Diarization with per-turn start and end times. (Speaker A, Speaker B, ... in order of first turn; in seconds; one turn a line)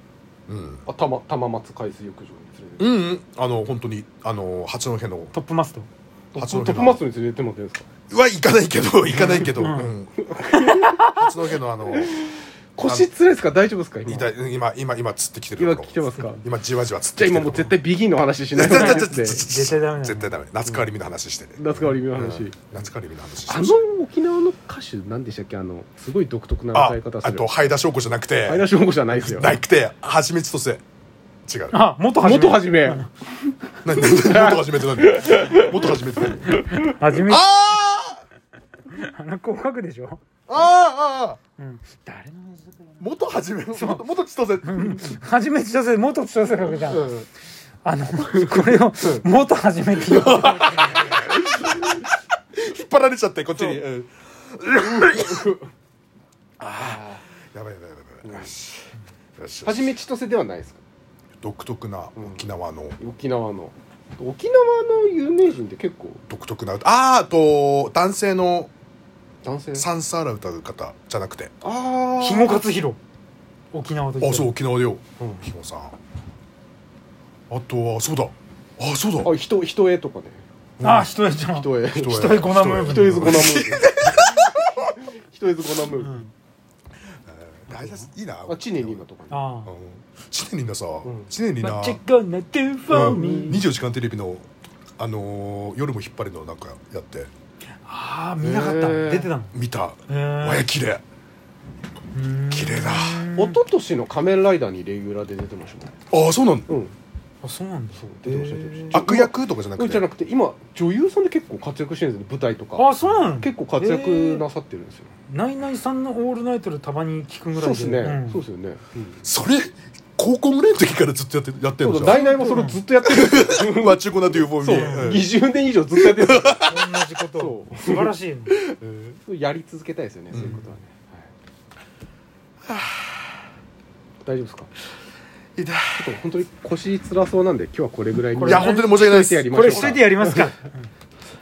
Speaker A: 0.5-0.9
Speaker B: 0.9-3.0
Speaker A: 2.8-5.3
Speaker C: 5.3-5.9
Speaker B: 6.3-7.9
Speaker A: 6.4-7.0
Speaker A: 8.1-10.2
Speaker C: 9.2-9.9
Speaker B: 9.2-9.6
Speaker B: 10.2-11.1
Speaker C: 10.5-11.2
Speaker A: 11.0-12.1
Speaker B: 11.9-14.4
Speaker A: 12.8-13.1
Speaker A: 14.1-17.8
Speaker B: 15.6-16.5
Speaker B: 17.1-19.4
Speaker A: 18.6-23.8
Speaker C: 18.6-20.3
Speaker B: 21.6-22.6
Speaker B: 23.5-27.5
Speaker A: 26.7-30.8
Speaker B: 28.4-29.6
Speaker A: 31.5-31.8
Speaker C: 31.7-33.1
Speaker B: 32.2-36.8
Speaker A: 33.8-38.2
Speaker C: 36.7-37.5
Speaker C: 38.9-40.2
Speaker A: 40.5-41.4
Speaker C: 41.6-43.1
Speaker A: 43.0-45.1
Speaker C: 43.7-44.1
Speaker C: 44.6-47.1
Speaker B: 46.7-47.3
Speaker C: 47.8-51.0
Speaker B: 48.3-49.2
Speaker A: 50.0-52.0
Speaker A: 52.5-55.5
Speaker B: 53.6-53.8
Speaker B: 54.8-55.7
Speaker A: 56.6-60.0
Speaker B: 56.7-57.2
Speaker B: 58.2-58.5
Speaker B: 59.6-60.8
Speaker A: 61.4-63.0
Speaker B: 62.2-62.5
Speaker B: 63.0-66.2
Speaker A: 66.3-68.7
Speaker B: 69.4-69.9
Speaker A: 69.8-71.5
Speaker B: 71.6-72.6
Speaker C: 72.2-73.0
Speaker C: 73.7-74.5
Speaker A: 74.2-75.9
Speaker B: 75.2-75.5
Speaker A: 77.5-79.3
Speaker B: 79.2-80.4
Speaker A: 80.8-81.1
Speaker C: 80.8-83.7
Speaker B: 81.4-82.3
Speaker A: 81.9-84.6
Speaker B: 82.8-86.2
Speaker C: 86.0-86.3
Speaker A: 87.1-89.0
Speaker B: 88.5-89.5
Speaker C: 89.3-89.7
Speaker A: 89.7-92.0
Speaker B: 91.0-91.3
Speaker C: 91.6-93.7
Speaker A: 92.9-94.5
Speaker B: 93.0-93.6
Speaker A: 95.0-97.3
Speaker C: 97.8-99.5
Speaker B: 98.4-99.3
Speaker A: 99.5-101.0
Speaker C: 100.1-100.7
Speaker C: 102.1-103.6
Speaker A: 102.5-103.3
Speaker B: 103.3-106.0
Speaker A: 106.1-106.7
Speaker B: 106.7-107.0
Speaker C: 107.4-109.0
Speaker B: 108.0-115.1
Speaker A: 108.9-110.0
Speaker C: 112.8-114.5
Speaker C: 115.3-118.4
Speaker B: 117.5-119.1
Speaker A: 119.2-122.2
Speaker B: 121.8-126.7
Speaker C: 122.0-122.8
Speaker A: 123.0-125.3
Speaker C: 124.7-125.2
Speaker A: 126.0-126.9
Speaker C: 126.6-128.6
Speaker B: 127.3-131.3
Speaker A: 130.3-130.7
Speaker A: 132.7-133.0
Speaker B: 134.2-134.7
Speaker A: 135.6-136.0
Speaker B: 135.9-140.6
Speaker C: 138.4-140.8
Speaker A: 138.4-140.1